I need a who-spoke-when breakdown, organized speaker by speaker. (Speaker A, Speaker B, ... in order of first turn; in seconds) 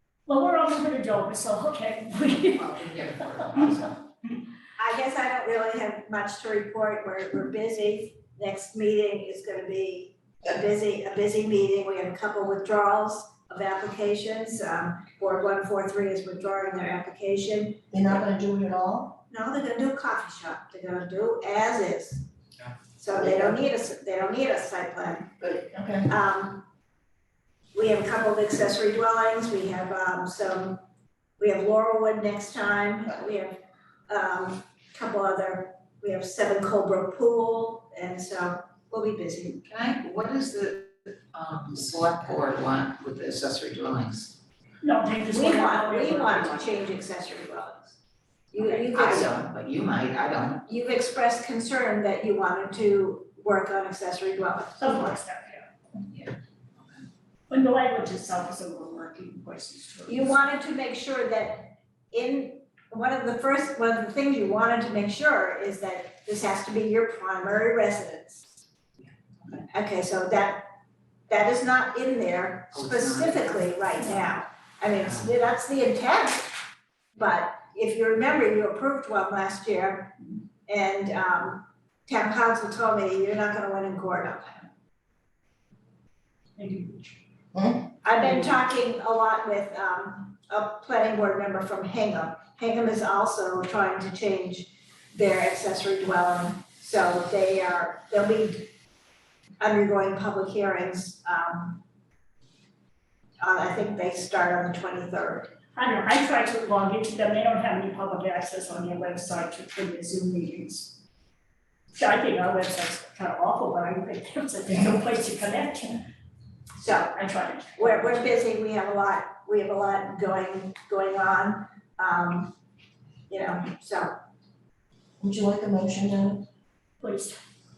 Speaker A: 0.3-2.7, 44.8-46.8, 54.8-55.7, 57.5-60.6, 86.6-87.1, 88.2-88.6, 105.7-111.0, 111.9-116.0, 117.2-118.4, 127.0-127.4
Speaker B: 2.5-4.0, 39.7-44.3, 48.9-50.6, 56.1-57.1, 72.7-73.8
Speaker C: 4.8-17.9, 19.3-22.3, 22.9-25.3, 26.1-26.6, 27.7-30.8, 31.4-39.6, 45.3-48.0, 48.5-49.4, 50.7-55.2, 60.1-68.4, 69.7-70.6, 71.3-76.6, 77.2-80.2, 80.7-84.7, 88.0-98.7, 99.6-101.8, 103.4-105.5, 116.8-117.2, 117.8-122.5, 123.3-124.2
Speaker D: 17.9-19.2, 23.1-23.7, 25.4-26.1, 87.5-87.8, 125.2-126.5